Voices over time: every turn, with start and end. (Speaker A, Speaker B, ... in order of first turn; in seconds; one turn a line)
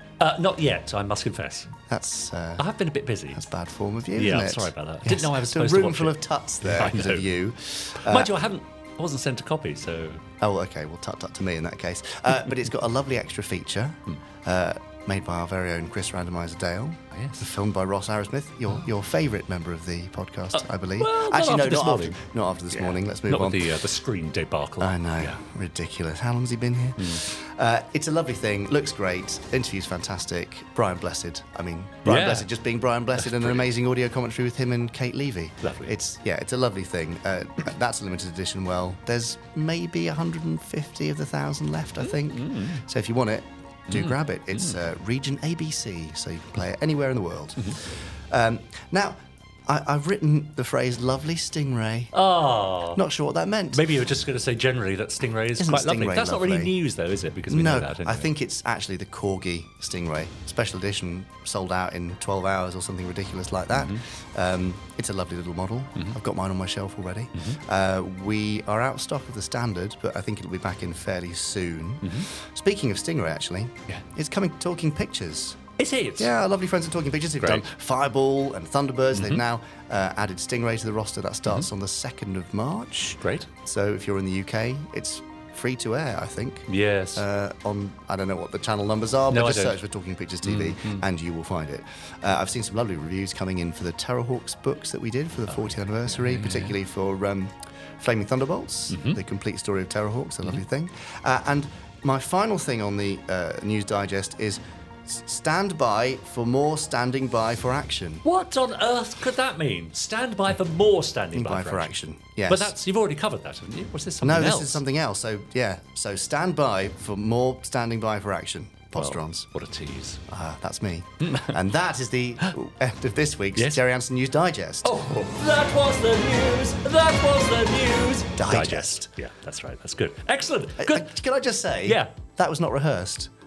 Speaker A: 0.2-1.7
Speaker B: 1.9-2.6
Speaker A: 2.6-3.4
Speaker B: 3.3-8.4
Speaker A: 4.1-7.3
Speaker A: 8.0-10.2
Speaker B: 10.4-23.7
Speaker A: 17.1-17.5
Speaker A: 20.5-22.2
Speaker A: 22.7-25.4
Speaker B: 24.8-52.1
Speaker A: 27.0-27.2
Speaker A: 32.0-32.5
Speaker A: 33.1-33.6
Speaker A: 35.6-35.9
Speaker A: 42.0-42.8
Speaker A: 43.9-44.8
Speaker A: 52.1-53.0
Speaker B: 52.9-53.8
Speaker A: 53.7-58.3
Speaker B: 55.6-56.7
Speaker B: 57.5-75.6
Speaker A: 63.7-64.0
Speaker A: 75.8-76.4
Speaker B: 76.2-108.2
Speaker A: 77.4-77.6
Speaker A: 79.1-79.4
Speaker A: 83.2-83.5
Speaker A: 86.7-87.2
Speaker A: 89.3-89.8
Speaker A: 90.4-91.0
Speaker A: 95.5-96.8
Speaker A: 98.9-99.2
Speaker A: 108.2-111.9
Speaker B: 111.3-112.7
Speaker A: 112.5-114.8
Speaker B: 114.2-119.5
Speaker A: 118.9-120.2
Speaker B: 120.3-124.9
Speaker A: 121.2-121.5
Speaker A: 123.5-123.8
Speaker A: 124.8-131.1
Speaker B: 128.4-129.0
Speaker B: 130.8-133.3